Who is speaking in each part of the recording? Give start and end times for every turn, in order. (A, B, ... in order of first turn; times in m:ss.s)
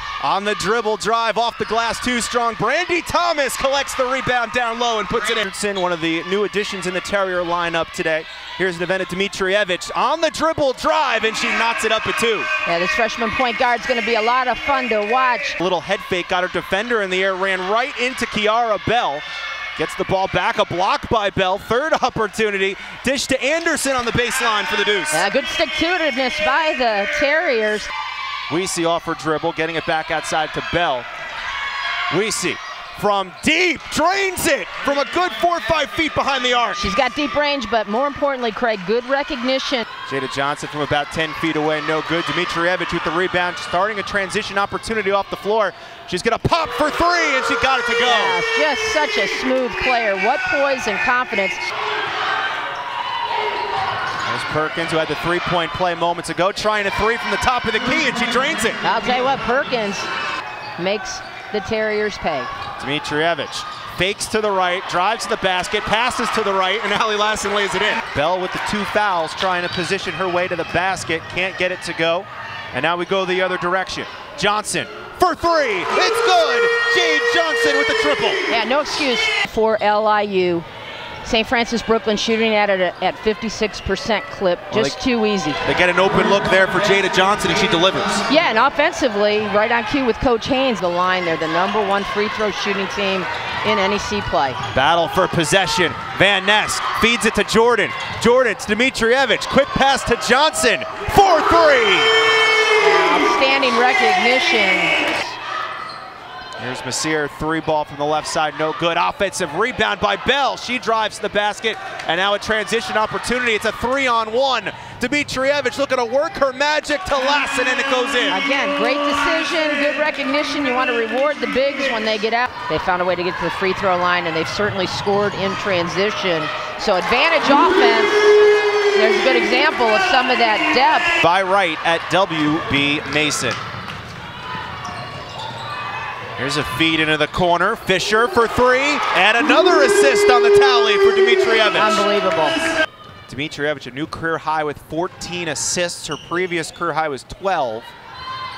0:00.2-0:12.5 A
0:12.6-0:15.6 B
0:15.6-0:19.2 A
0:19.8-0:25.2 A
0:25.1-0:27.9 B
0:28.5-0:31.1 A
0:32.1-0:36.8 A
0:36.8-0:39.9 B
0:40.1-0:48.4 A
0:48.0-0:51.7 B
0:54.2-0:58.8 A
0:58.8-1:00.1 B
1:00.8-1:02.5 B
1:02.8-1:18.4 A
1:18.5-1:20.6 B
1:21.2-1:25.6 B
1:24.7-1:25.0 A
1:25.6-1:28.2 A
1:28.3-1:34.6 B
1:34.7-1:42.1 A
1:42.8-1:45.4 B
1:46.6-1:58.4 A
1:58.3-2:08.4 B
2:08.9-2:11.1 B
2:11.2-2:13.6 A
2:16.4-2:22.0 A
2:21.7-2:22.7 B
2:23.3-2:27.9 A